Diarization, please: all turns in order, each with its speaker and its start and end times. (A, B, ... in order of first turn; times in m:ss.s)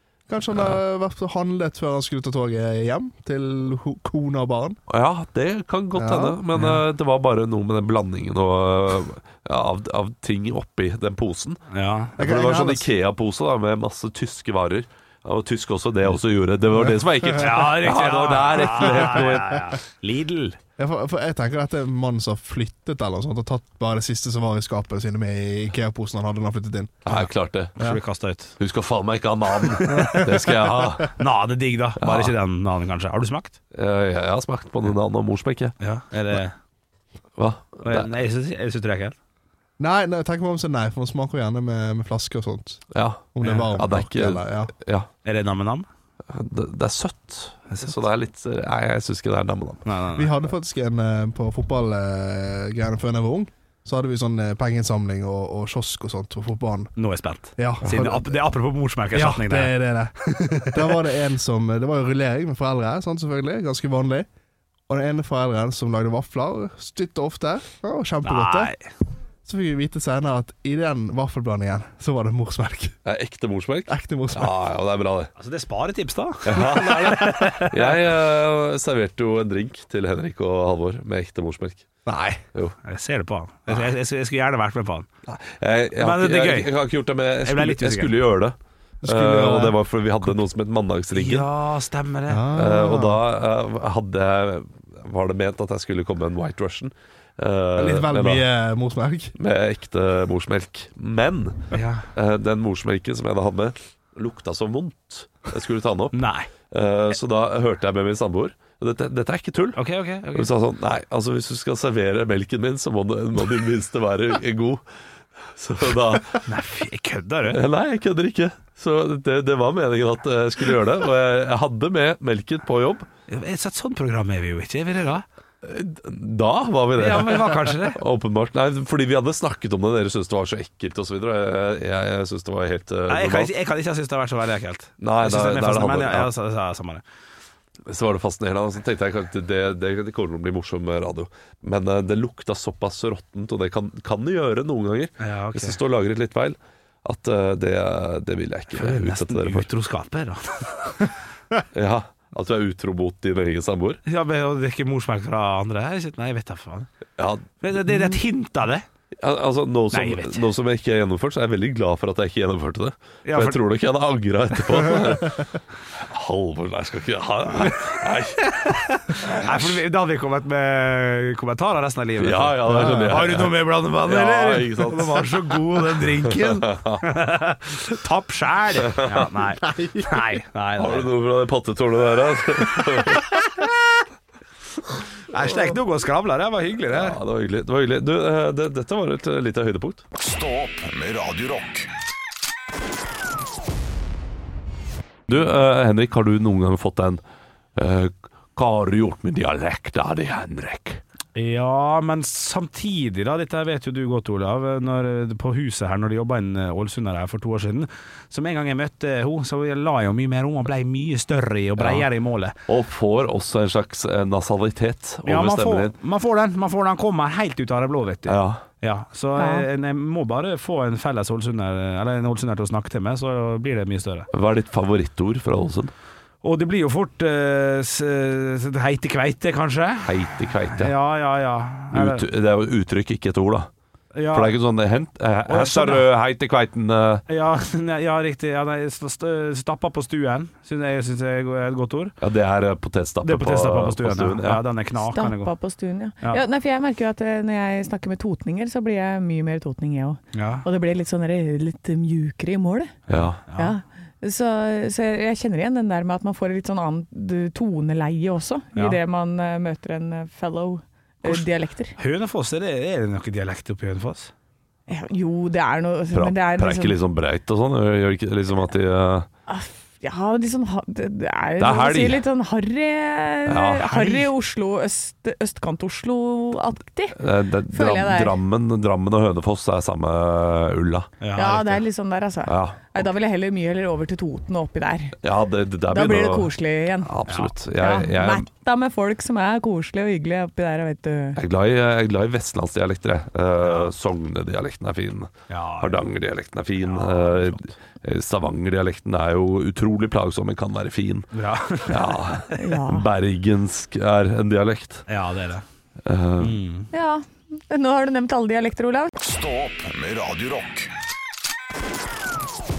0:00.3-0:04.8 A
0:00.5-0:00.8 B
0:04.9-0:11.6 B
0:05.9-0:06.4 A
0:06.5-0:06.8 C
0:11.7-0:12.2 C
0:12.2-0:19.7 B
0:12.2-0:12.9 A
0:17.4-0:20.6 C
0:20.8-0:27.2 A
0:27.0-0:27.8 B
0:27.8-0:28.6 C
0:28.6-0:31.2 B
0:29.7-0:30.3 C
0:29.9-0:30.8 A
0:31.2-0:33.6 C
0:32.0-0:32.3 B
0:33.7-0:35.8 B
0:35.8-0:36.6 C
0:37.4-0:38.1 B
0:37.8-0:39.2 C
0:39.8-0:44.7 A
0:42.9-0:45.1 B
0:45.2-0:45.9 C
0:46.3-0:49.8 B
0:49.8-0:50.3 C
0:50.2-0:56.9 A
0:57.0-0:59.8 C
0:57.6-0:58.3 A
0:59.1-1:04.3 A
1:00.5-1:00.8 C
1:04.9-1:08.7 A
1:08.2-1:08.8 C
1:09.4-1:13.0 A
1:13.0-1:15.3 B
1:13.9-1:14.5 A
1:15.4-1:17.9 C
1:16.4-1:21.9 B
1:22.0-1:22.4 A
1:22.8-1:25.1 C
1:25.3-1:31.5 B
1:26.0-1:26.7 C
1:27.4-1:28.1 C
1:29.0-1:29.8 A
1:31.1-1:32.5 C
1:32.3-1:33.2 A
1:32.5-1:38.4 B
1:37.8-1:39.3 A
1:39.4-1:49.8 B
1:41.7-1:42.0 C
1:46.1-1:46.5 C
1:49.8-1:50.5 C
1:50.3-1:54.8 B
1:55.4-1:56.4 B
1:56.4-1:57.6 C
1:57.5-2:03.1 B
2:03.3-2:05.2 C
2:05.6-2:13.5 B
2:07.0-2:08.0 C
2:13.1-2:17.0 C
2:15.0-2:16.3 B
2:17.9-2:29.7 B
2:25.2-2:25.8 C
2:28.7-2:31.1 C
2:31.7-2:34.0 B
2:34.0-2:36.9 C
2:37.2-2:38.1 B
2:37.6-2:38.8 C
2:39.2-2:49.6 B
2:39.9-2:40.4 C
2:43.2-2:43.6 C
2:48.4-3:01.1 C
2:52.2-2:57.1 B
2:52.8-2:53.1 A
2:58.9-2:59.2 B
2:59.7-3:00.0 A
3:00.8-3:03.4 B
3:05.3-3:07.2 C
3:06.9-3:10.0 B
3:10.2-3:11.9 D
3:15.3-3:17.2 B
3:17.8-3:21.0 B
3:21.3-3:32.6 C
3:31.8-3:32.0 B
3:32.7-3:35.9 B
3:35.2-3:44.3 C
3:38.3-3:38.6 B
3:39.4-3:39.7 E
3:44.3-3:45.9 B
3:46.4-3:50.2 C
3:50.0-3:50.9 B
3:50.7-3:52.2 C
3:51.9-3:53.7 B
3:54.1-3:54.5 C
3:54.3-3:57.2 B
3:55.5-3:56.1 C
3:57.3-4:02.1 C
4:02.2-4:04.6 B
4:03.2-4:05.5 C
4:05.0-4:12.9 E
4:10.3-4:10.6 C
4:13.1-4:13.7 C
4:13.1-4:13.4 B
4:13.5-4:21.9 E
4:18.7-4:19.0 C
4:22.0-4:24.3 C
4:24.9-4:27.0 E
4:26.1-4:29.3 B
4:29.5-4:38.4 E
4:31.6-4:32.2 B
4:33.5-4:34.2 B
4:37.1-4:41.2 B
4:41.2-4:41.8 C
4:41.3-4:45.2 E
4:42.4-4:43.0 B
4:45.2-4:48.5 B
4:45.9-4:47.1 E
4:47.3-4:47.5 C
4:47.7-4:51.4 E
4:51.4-5:01.3 B
4:53.6-4:53.9 C
4:55.5-4:56.0 C
4:56.8-4:57.7 C
5:01.3-5:02.3 C
5:01.8-5:05.0 B
5:02.5-5:03.1 E
5:05.1-5:05.6 C
5:06.0-5:06.6 B
5:06.4-5:06.9 C
5:06.9-5:09.1 E
5:09.2-5:10.9 D